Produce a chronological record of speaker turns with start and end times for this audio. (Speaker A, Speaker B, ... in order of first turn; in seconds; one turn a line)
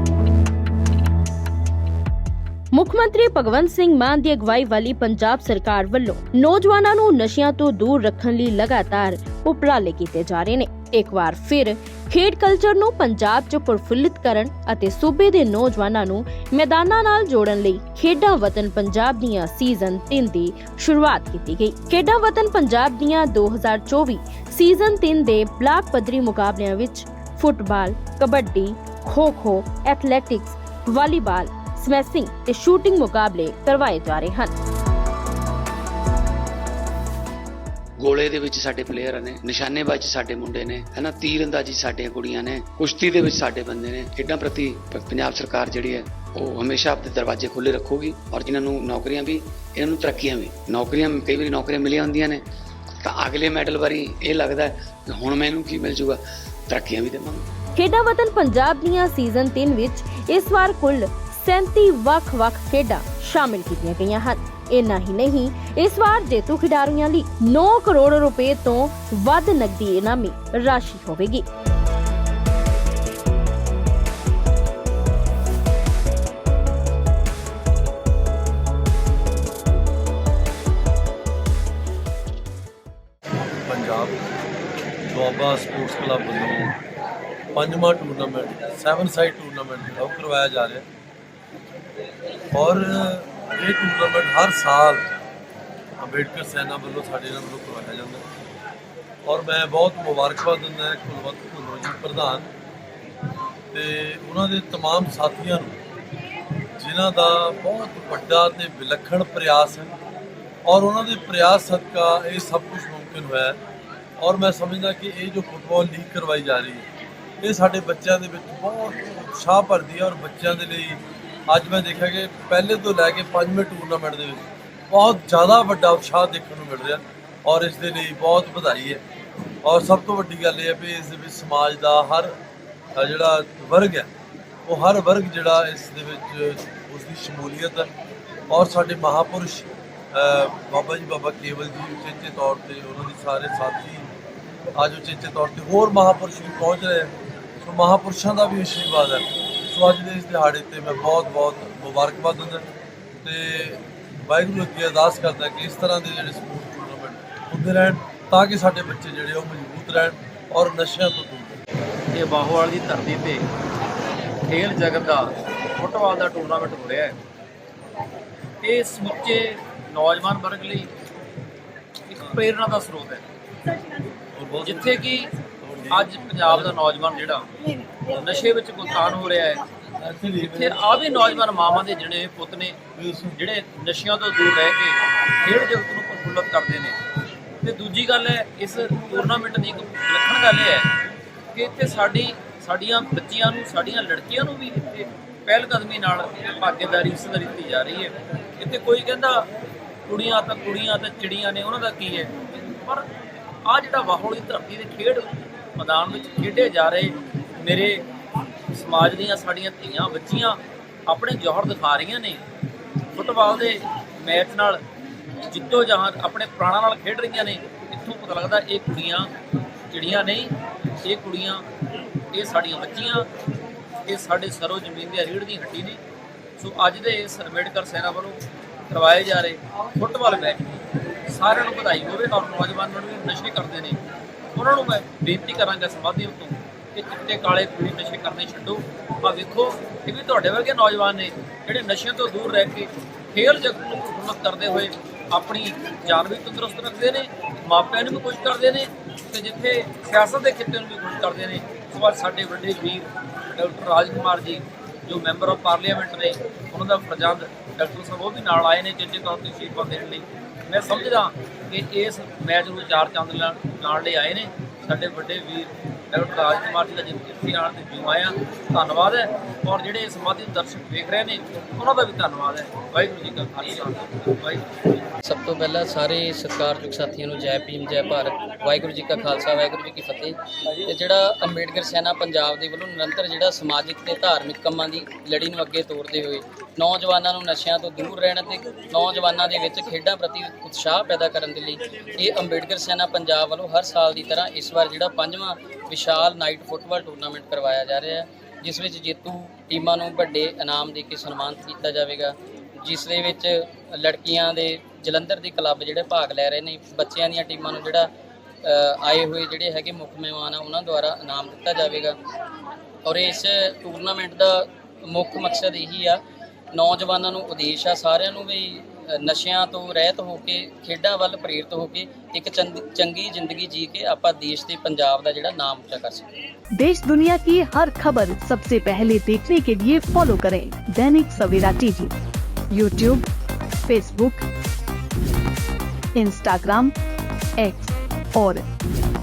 Speaker A: 2.7-34.5
Speaker B: 38.0-52.4
Speaker B: 53.0-57.5
Speaker A: 57.8-71.5
Speaker C: 83.7-84.2
Speaker C: 85.0-86.8
Speaker C: 87.5-90.8
Speaker C: 92.5-95.0
Speaker C: 96.0-98.3
Speaker C: 99.2-102.5
Speaker C: 103.7-105.8
Speaker C: 106.8-109.9
Speaker C: 110.7-113.6
Speaker C: 114.2-116.9
Speaker C: 117.4-129.0
Speaker C: 129.6-132.3
Speaker C: 132.9-134.1
Speaker C: 134.7-137.9
Speaker C: 138.5-144.1
Speaker C: 144.8-152.7
Speaker C: 153.2-161.6
Speaker D: 162.1-163.5
Speaker D: 164.5-167.2
Speaker D: 168.6-170.9
Speaker D: 172.1-173.2
Speaker C: 174.3-175.1
Speaker D: 174.7-175.3
Speaker C: 175.6-176.7
Speaker D: 175.9-179.6
Speaker C: 180.0-180.9
Speaker D: 180.4-182.8
Speaker C: 183.0-183.4
Speaker D: 183.4-187.0
Speaker D: 187.6-190.9
Speaker D: 191.5-199.5
Speaker D: 200.1-203.1
Speaker D: 203.6-208.0
Speaker D: 208.7-212.4
Speaker D: 213.1-214.8
Speaker D: 215.5-219.3
Speaker D: 219.9-220.5
Speaker D: 221.0-221.6
Speaker D: 222.3-223.3
Speaker D: 224.1-226.0
Speaker D: 226.6-234.0
Speaker D: 234.5-275.1
Speaker E: 275.2-308.1
Speaker E: 308.6-312.1
Speaker E: 313.0-316.2
Speaker E: 316.7-326.2
Speaker F: 326.8-332.1
Speaker F: 332.7-333.2
Speaker F: 333.9-334.4
Speaker F: 336.1-336.9
Speaker F: 337.6-338.6